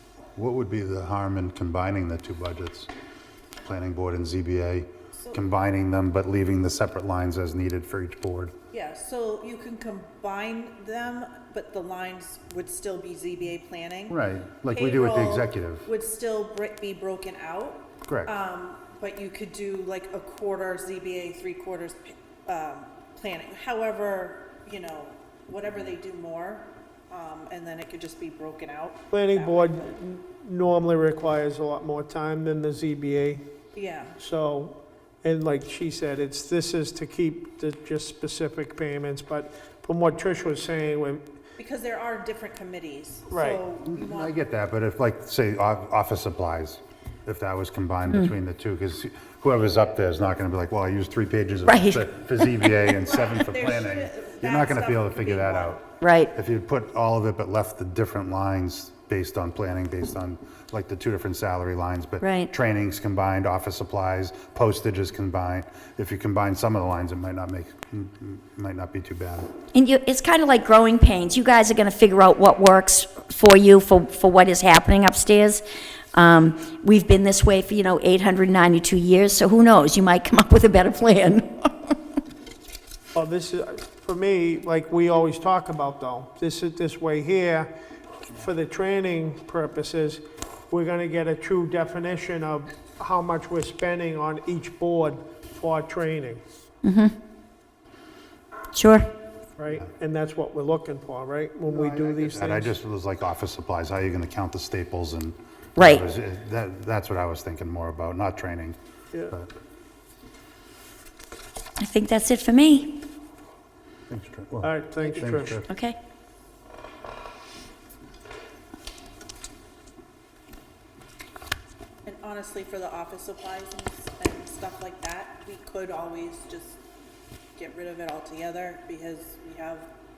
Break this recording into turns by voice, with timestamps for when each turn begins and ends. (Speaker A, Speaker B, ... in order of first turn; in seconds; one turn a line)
Speaker A: 0.4-2.9
Speaker A: 3.6-8.5
Speaker B: 5.1-5.4
Speaker B: 8.7-14.2
Speaker A: 14.1-15.9
Speaker B: 14.7-29.9
Speaker A: 18.1-18.3
Speaker C: 29.1-33.4
Speaker B: 33.7-34.2
Speaker C: 34.2-41.2
Speaker B: 41.6-44.4
Speaker C: 43.3-43.6
Speaker A: 43.9-55.8
Speaker D: 51.7-52.1
Speaker B: 52.9-55.8
Speaker D: 56.0-56.3
Speaker A: 56.3-69.5
Speaker D: 62.2-62.5
Speaker D: 69.7-75.6
Speaker D: 76.1-82.0
Speaker C: 83.2-87.7
Speaker C: 88.3-96.4
Speaker D: 96.8-97.1
Speaker D: 98.7-99.1
Speaker C: 99.6-102.7
Speaker A: 101.7-108.8
Speaker D: 105.8-106.0
Speaker D: 111.8-113.0
Speaker A: 114.1-115.7
Speaker C: 114.6-115.6
Speaker D: 115.7-116.0
Speaker B: 122.1-126.8
Speaker B: 127.6-129.9